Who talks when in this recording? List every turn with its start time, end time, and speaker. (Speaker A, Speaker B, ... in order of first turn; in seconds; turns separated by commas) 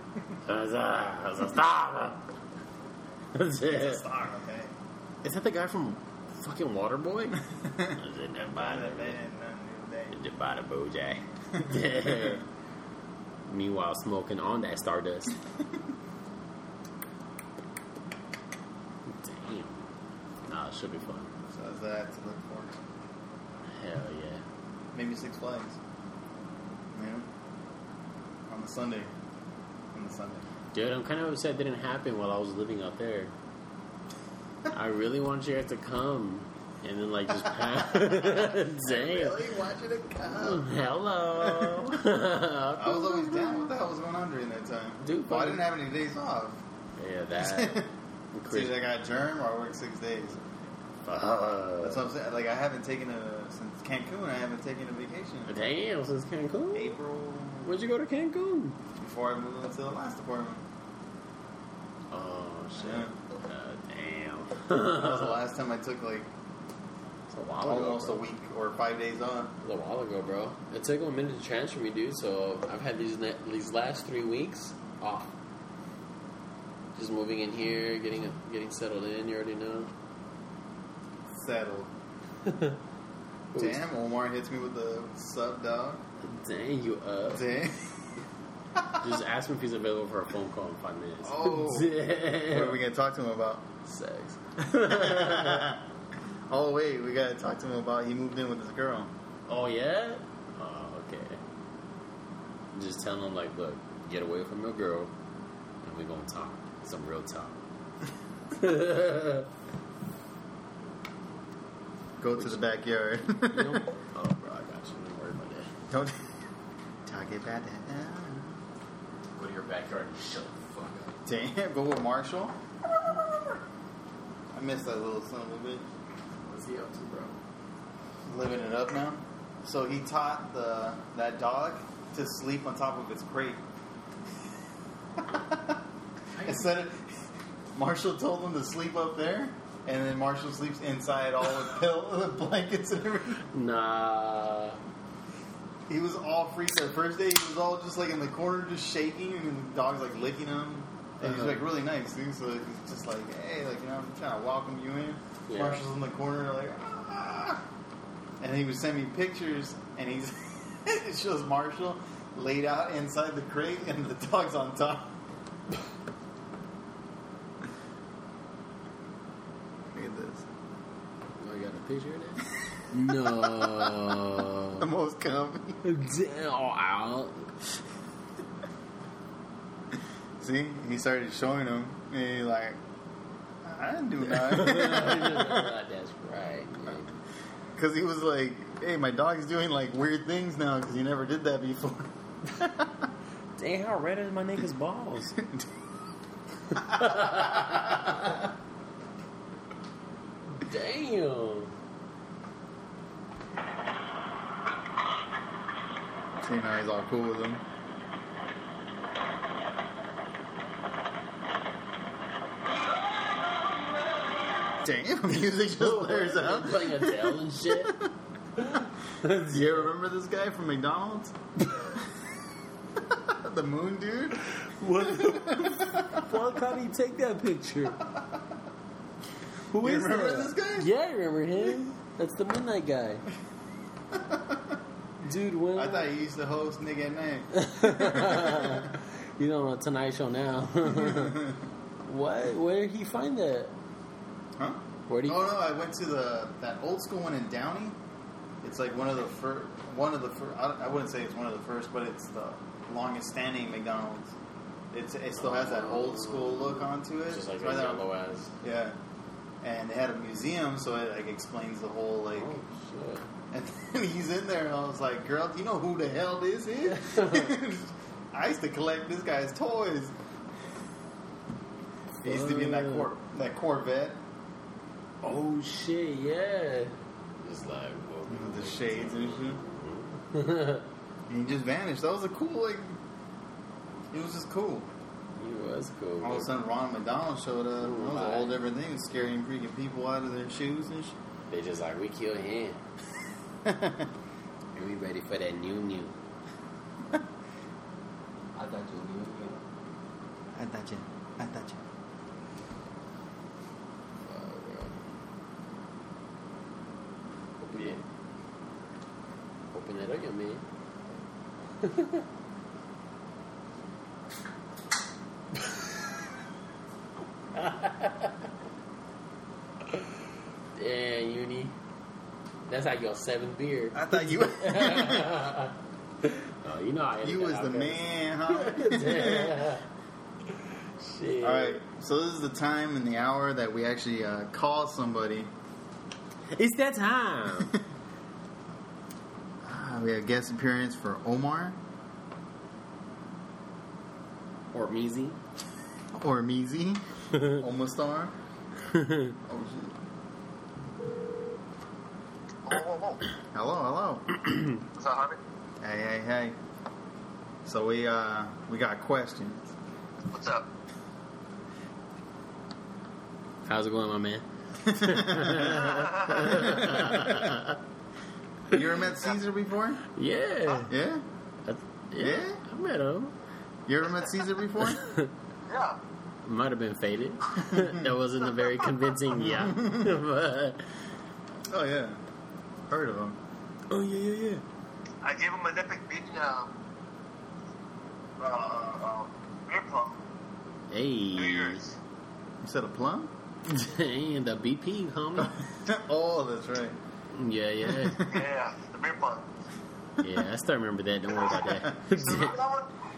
Speaker A: 0.5-2.2, Speaker A: 3.3-4.0, Speaker B: 3.7-4.7, Speaker A: 5.2-9.2, Speaker B: 7.6-10.2, Speaker A: 10.1-12.4, Speaker B: 11.7-12.4, Speaker A: 13.5-15.3, Speaker A: 19.1-19.8, Speaker A: 20.4-21.3, Speaker B: 21.5-22.8, Speaker A: 23.7-24.4, Speaker B: 24.9-25.8, Speaker B: 26.9-27.3, Speaker B: 28.5-29.1, Speaker B: 29.9-30.4, Speaker A: 30.7-33.3, Speaker A: 34.7-39.4, Speaker B: 37.4-40.7, Speaker A: 40.3-43.7, Speaker B: 41.3-41.9, Speaker B: 42.8-46.6, Speaker A: 45.0-45.6, Speaker A: 47.0-48.8, Speaker B: 47.4-47.9, Speaker B: 48.5-50.4, Speaker A: 51.0-52.1, Speaker B: 51.8-55.6, Speaker A: 55.5-57.0, Speaker B: 56.7-57.8, Speaker A: 57.6-58.8, Speaker B: 59.0-60.6, Speaker A: 62.1-65.4, Speaker B: 62.8-63.1, Speaker B: 64.8-66.3, Speaker A: 67.3-68.2, Speaker B: 67.6-69.5, Speaker A: 69.6-75.3, Speaker A: 76.9-79.9, Speaker B: 81.3-81.9, Speaker A: 82.4-82.8, Speaker A: 83.5-83.8, Speaker B: 83.5-86.0, Speaker A: 86.2-87.5, Speaker B: 87.3-88.0, Speaker B: 88.7-89.0, Speaker A: 89.0-92.8, Speaker B: 91.2-93.7, Speaker A: 93.8-95.8, Speaker B: 94.7-95.8, Speaker B: 96.5-99.1, Speaker A: 99.5-101.4, Speaker A: 102.7-105.1, Speaker A: 105.8-107.6, Speaker A: 108.5-109.5, Speaker B: 112.2-113.9, Speaker A: 112.4-112.6, Speaker A: 113.4-115.7, Speaker B: 115.9-116.3, Speaker B: 117.0-118.6, Speaker A: 119.3-121.2, Speaker B: 121.2-122.6, Speaker B: 124.5-125.8, Speaker A: 126.4-127.4, Speaker B: 128.2-133.6, Speaker B: 135.2-135.8, Speaker A: 136.3-136.7, Speaker B: 136.4-137.2, Speaker B: 137.7-143.4, Speaker A: 143.5-144.8, Speaker B: 145.9-157.6, Speaker A: 151.2-151.7, Speaker A: 155.5-155.8, Speaker B: 158.4-165.2, Speaker B: 169.9-170.5, Speaker A: 171.4-174.8, Speaker B: 173.2-174.2, Speaker B: 174.8-175.8, Speaker A: 175.8-177.5, Speaker B: 180.4-182.8, Speaker B: 183.6-185.7, Speaker A: 184.2-187.2, Speaker B: 187.7-193.1, Speaker A: 193.6-195.4, Speaker B: 195.4-195.7, Speaker A: 196.7-198.4, Speaker B: 196.8-198.3, Speaker A: 200.6-201.7, Speaker B: 206.4-207.6, Speaker B: 214.8-218.1, Speaker A: 215.6-218.0, Speaker A: 218.6-219.8, Speaker B: 219.3-221.3, Speaker B: 223.0-224.4, Speaker A: 224.5-228.0, Speaker B: 224.9-226.3, Speaker A: 229.7-233.2, Speaker B: 229.8-230.9, Speaker B: 234.1-234.8, Speaker A: 235.2-236.1, Speaker B: 235.7-238.9, Speaker A: 237.5-243.7, Speaker B: 240.8-241.6, Speaker B: 244.6-247.9, Speaker A: 245.1-245.5, Speaker B: 248.6-254.3, Speaker B: 254.9-258.1, Speaker A: 255.4-258.5, Speaker B: 258.6-259.0, Speaker B: 259.6-262.6, Speaker A: 262.3-263.3, Speaker B: 263.5-270.1, Speaker A: 266.9-267.5, Speaker A: 272.2-273.1, Speaker B: 272.2-274.2, Speaker A: 275.2-280.9, Speaker B: 278.3-279.6, Speaker B: 281.3-283.0, Speaker B: 284.1-284.9, Speaker A: 285.4-286.5, Speaker B: 286.2-291.1, Speaker A: 287.8-288.6, Speaker A: 291.5-292.8, Speaker B: 293.6-294.1, Speaker A: 294.7-296.1, Speaker A: 298.6-299.6, Speaker B: 300.5-301.8, Speaker A: 304.2-305.0, Speaker A: 307.6-308.0, Speaker A: 309.7-310.6, Speaker A: 311.8-312.2, Speaker A: 317.5-318.3, Speaker A: 320.7-321.8, Speaker A: 322.7-329.9, Speaker B: 323.9-325.4, Speaker B: 327.2-329.7, Speaker A: 330.5-331.8, Speaker B: 331.4-335.5, Speaker A: 336.5-337.7, Speaker B: 339.6-341.8, Speaker A: 344.7-345.4, Speaker B: 346.1-348.3, Speaker A: 348.9-349.4, Speaker B: 349.4-349.9, Speaker C: 352.6-353.2, Speaker B: 353.5-354.4, Speaker C: 354.9-355.4, Speaker B: 355.8-356.6, Speaker B: 357.6-359.7, Speaker C: 360.3-360.7, Speaker A: 363.6-367.8, Speaker B: 364.8-367.5, Speaker C: 365.9-366.4, Speaker B: 368.7-370.0, Speaker A: 370.1-370.9, Speaker B: 370.9-371.2, Speaker A: 371.6-373.3, Speaker B: 372.1-372.6, Speaker B: 373.9-375.1, Speaker A: 374.8-375.3, Speaker C: 375.7-376.0, Speaker A: 376.4-380.9, Speaker B: 377.6-378.1, Speaker B: 379.3-380.1, Speaker B: 381.7-382.2, Speaker B: 382.9-383.4, Speaker A: 383.9-384.6, Speaker C: 385.2-386.8, Speaker C: 388.4-390.2, Speaker A: 390.9-391.8, Speaker C: 391.3-391.9, Speaker B: 392.6-393.3, Speaker A: 393.7-395.6, Speaker B: 395.4-397.0, Speaker A: 397.3-398.3, Speaker B: 397.8-398.4, Speaker C: 398.2-399.5, Speaker A: 400.2-402.6, Speaker C: 401.4-402.9